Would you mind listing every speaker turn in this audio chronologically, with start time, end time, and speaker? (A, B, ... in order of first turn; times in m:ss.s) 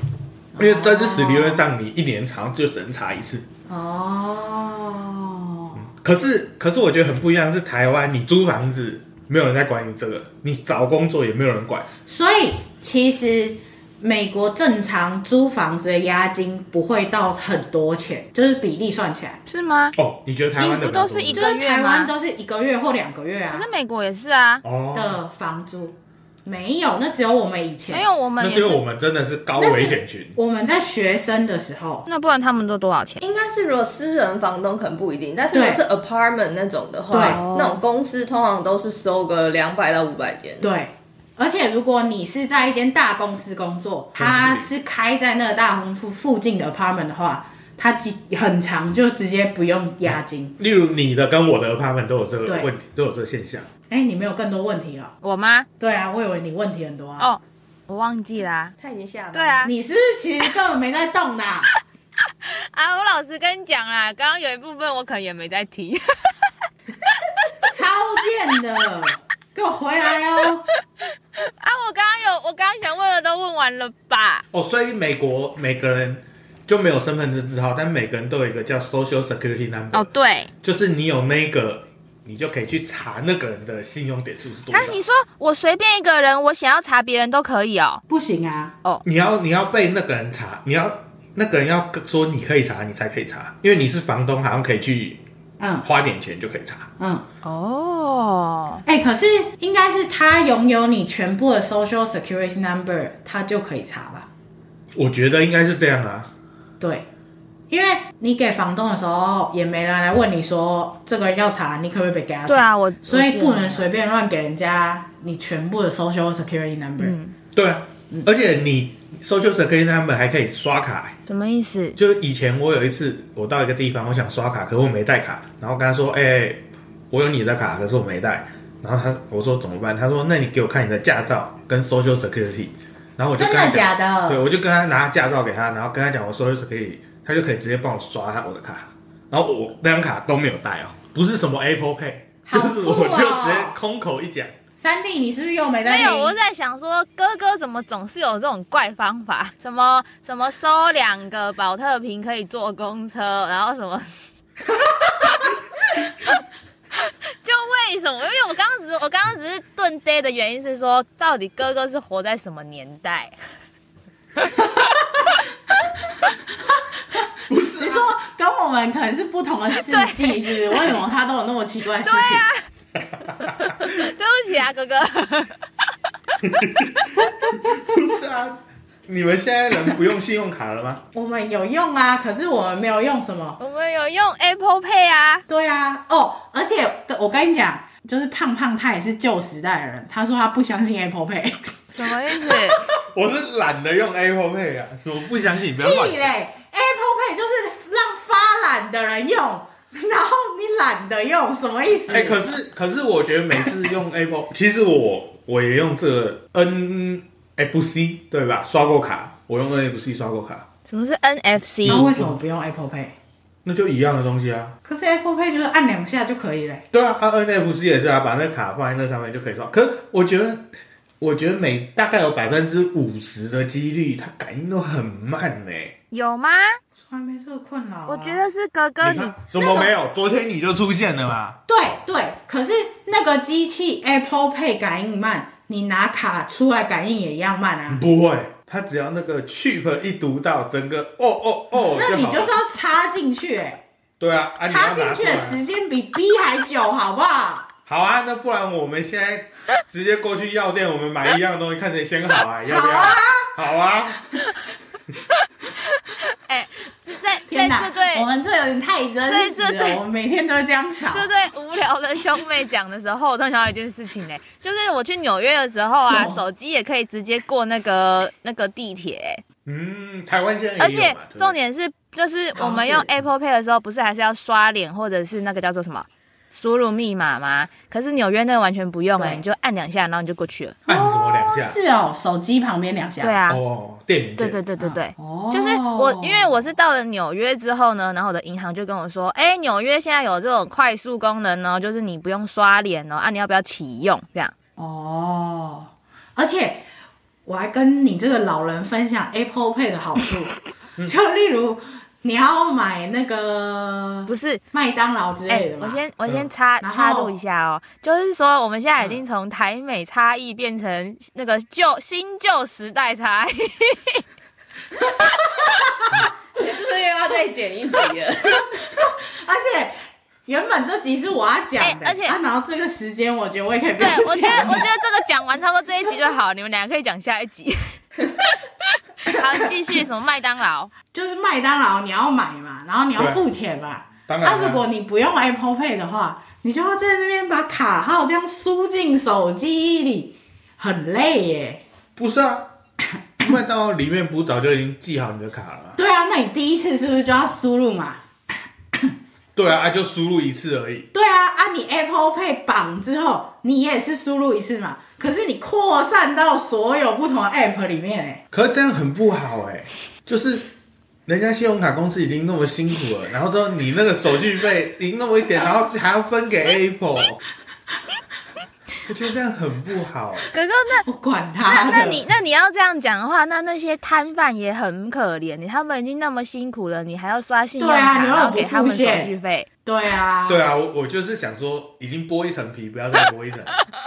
0:00.5-0:01.6 A
0:00.6-0:03.4 B
0:03.7-0:05.8 A
0:05.8-0:11.9 B
0:12.1-0:19.4 A
0:19.5-0:20.0 C
0:20.0-0:21.5 B
0:20.6-0:22.1 C
0:21.3-0:23.7 A
0:23.5-0:24.6 C
0:24.6-0:25.2 B
0:24.9-0:28.0 A
0:27.9-0:28.8 C
0:28.4-0:30.4 B
0:29.6-0:32.1 A
0:32.1-0:33.2 C
0:33.2-0:40.6 D
0:35.5-0:35.8 A
0:37.1-0:37.8 C
0:37.1-0:37.4 A
0:40.6-0:50.6 A
0:44.2-0:44.7 B
0:50.1-0:53.7 B
0:53.9-0:55.1 A
0:55.2-0:55.7 C
0:55.8-0:57.3 A
0:57.2-0:58.7 C
0:58.8-0:59.7 D
0:59.3-0:59.7 C
0:59.6-1:01.7 A
1:02.4-1:06.5 C
1:07.7-1:10.6 A
1:11.3-1:14.4 C
1:14.5-1:20.1 B
1:19.9-1:20.5 C
1:20.6-1:25.0 B
1:24.7-1:28.0 C
1:28.1-1:28.7 A
1:29.0-1:35.2 B
1:35.6-1:35.8 A
1:35.8-1:36.9 B
1:37.0-1:37.2 A
1:37.4-1:38.8 C
1:38.8-1:44.3 A
1:44.9-1:46.3 B
1:46.8-1:47.1 A
1:47.7-1:57.2 A
1:52.5-1:53.8 C
1:57.0-1:57.4 C
1:57.5-2:01.2 B
2:01.3-2:02.0 C
2:02.0-2:24.5 B
2:13.4-2:14.5 A
2:22.4-2:23.7 A
2:24.8-2:26.3 A
2:25.8-2:35.6 C
2:36.9-2:43.3 C
2:44.4-2:44.7 C
2:47.5-2:48.1 B
2:47.8-2:52.4 A
2:49.8-2:50.9 C
2:52.0-2:52.6 C
2:53.1-2:53.8 B
2:53.8-2:55.6 C
2:56.4-3:01.0 B
3:01.1-3:03.6 A
3:03.6-3:05.4 C
3:05.5-3:12.6 A
3:11.9-3:12.8 C
3:13.0-3:16.3 B
3:15.8-3:22.5 A
3:22.1-3:30.7 B
3:30.9-3:32.0 C
3:31.8-3:32.4 B
3:31.8-3:33.2 A
3:33.6-3:34.8 B
3:34.8-3:36.8 A
3:36.9-3:40.7 B
3:41.2-3:45.9 B
3:46.1-3:46.8 C
3:47.1-3:48.4 A
3:48.1-3:49.9 C
3:49.0-3:51.6 B
3:51.7-3:58.0 A
3:57.9-4:02.5 B
4:01.8-4:03.8 A
4:04.2-4:05.6 B
4:04.6-4:07.7 A
4:07.8-4:14.3 B
4:12.6-4:13.5 A
4:16.1-4:18.3 C
4:17.5-4:21.3 A
4:19.3-4:20.0 C
4:21.1-4:29.4 C
4:26.1-4:26.4 A
4:29.6-4:31.6 B
4:30.8-4:40.8 C
4:32.5-4:33.1 A
4:39.2-4:39.4 A
4:40.8-4:43.3 A
4:40.9-4:41.8 B
4:43.2-4:43.6 C
4:43.4-4:44.6 B
4:44.4-4:54.5 C
4:44.8-4:46.5 A
4:54.8-4:56.8 A
4:57.4-5:06.0 A
5:04.3-5:04.6 C
5:05.5-5:14.2 C
5:06.2-5:06.5 B
5:06.8-5:07.4 A
5:15.0-5:16.2 A
5:16.5-5:18.7 D
5:19.0-5:24.9 A
5:21.8-5:22.4 C
5:24.0-5:28.3 C
5:29.2-5:30.9 C
5:29.2-5:29.5 A
5:31.1-5:41.8 A
5:33.2-5:33.4 B
5:34.3-5:34.8 B
5:42.2-5:42.7 B
5:43.1-5:43.5 A
5:43.4-5:46.0 B
5:46.0-5:48.2 A
5:49.5-5:51.1 B
5:51.1-5:58.4 A
5:58.5-6:00.6 B
6:01.2-6:07.4 B
6:09.1-6:10.5 B
6:10.5-6:11.1 C
6:11.1-6:12.2 A
6:11.6-6:19.7 C
6:17.8-6:19.3 A
6:19.8-6:20.6 A
6:20.5-6:23.8 B